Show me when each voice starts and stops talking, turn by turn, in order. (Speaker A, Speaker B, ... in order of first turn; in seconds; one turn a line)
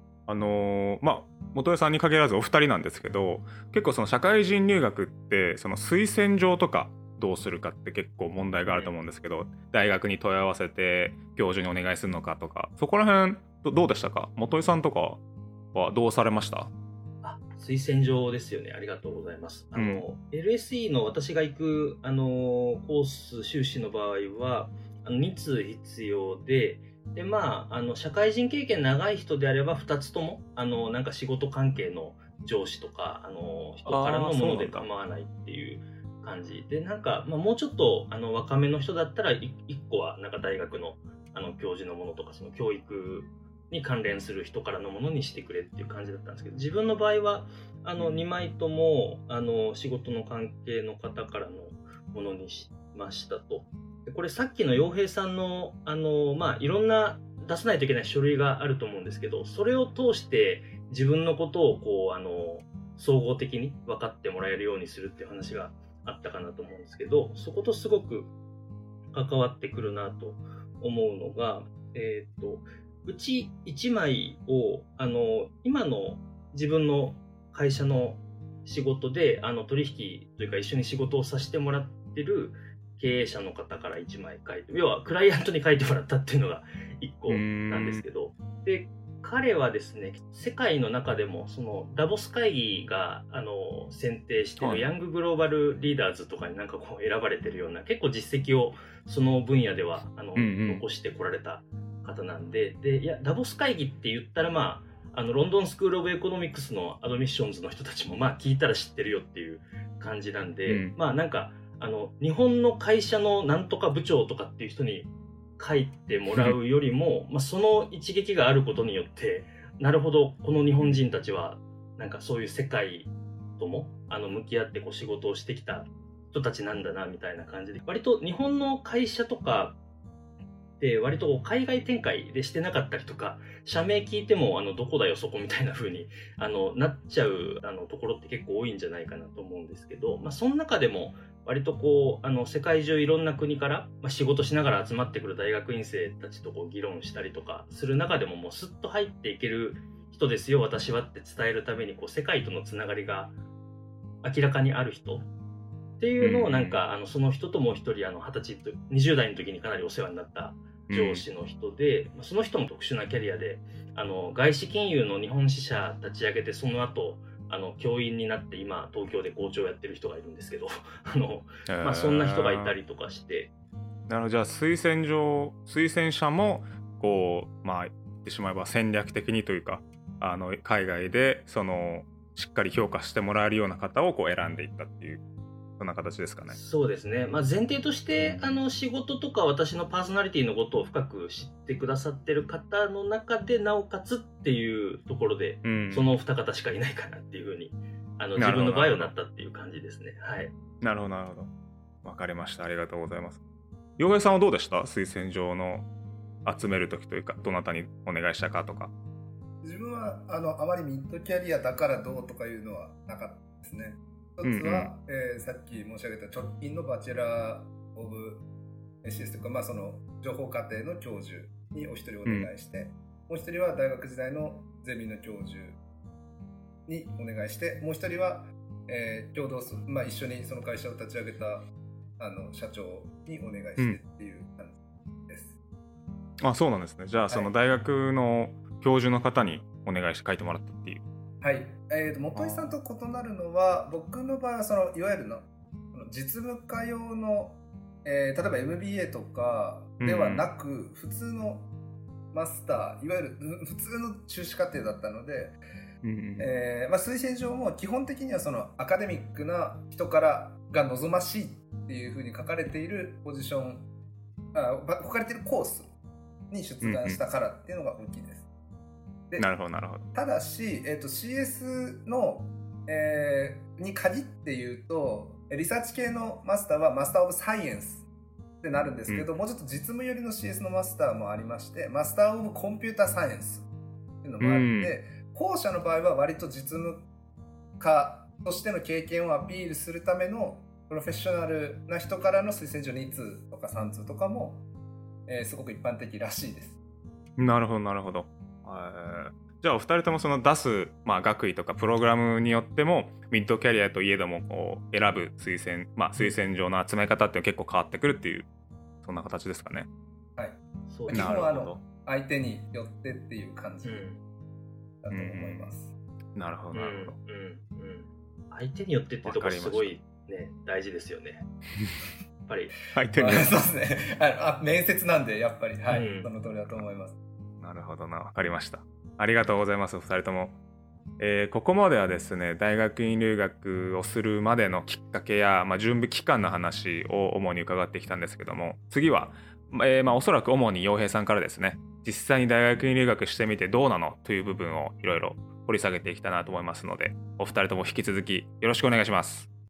Speaker A: 0.3-15.2
Speaker B: 8.7-8.9
Speaker A: 15.7-16.7
Speaker B: 17.2-68.3
Speaker A: 19.7-20.0
Speaker A: 33.9-34.9
Speaker A: 48.0-48.2
Speaker B: 69.1-129.8
Speaker A: 87.3-88.0
Speaker A: 94.6-94.8
Speaker A: 100.3-100.8
Speaker A: 110.7-111.0
Speaker B: 130.8-153.3
Speaker B: 154.2-155.3
Speaker B: 156.0-173.5
Speaker A: 156.2-156.8
Speaker A: 160.9-161.2
Speaker A: 171.7-172.7
Speaker A: 174.1-185.2
Speaker A: 185.8-186.6
Speaker B: 186.5-200.5
Speaker A: 188.2-188.6
Speaker A: 195.6-196.1
Speaker A: 198.3-199.1
Speaker A: 200.8-201.5
Speaker A: 202.0-203.4
Speaker A: 204.0-205.9
Speaker A: 206.4-208.9
Speaker C: 209.6-218.4
Speaker A: 214.4-214.9
Speaker C: 219.0-225.8
Speaker A: 222.2-222.5
Speaker C: 226.8-231.7
Speaker C: 232.2-235.6
Speaker A: 236.4-241.0
Speaker C: 237.3-237.5
Speaker C: 241.4-251.7
Speaker A: 242.3-242.8
Speaker A: 250.0-250.4
Speaker C: 252.3-255.6
Speaker A: 256.0-256.5
Speaker C: 256.4-263.9
Speaker C: 264.5-265.9
Speaker C: 266.5-268.5
Speaker A: 266.8-267.2
Speaker A: 269.4-270.0
Speaker C: 270.1-278.1
Speaker C: 278.6-283.7
Speaker C: 284.2-287.1
Speaker A: 284.4-284.9
Speaker C: 287.8-294.6
Speaker C: 295.3-296.8
Speaker A: 297.4-308.5
Speaker A: 309.0-309.9
Speaker C: 310.4-314.1
Speaker B: 310.9-311.3
Speaker A: 311.1-311.8
Speaker B: 313.8-314.2
Speaker C: 315.0-315.9
Speaker A: 315.1-315.7
Speaker A: 316.3-317.1
Speaker B: 316.7-321.5
Speaker A: 319.2-319.9
Speaker B: 322.4-322.7
Speaker A: 322.9-323.5
Speaker C: 323.1-327.1
Speaker B: 325.9-326.3
Speaker A: 327.6-330.6
Speaker A: 331.2-349.5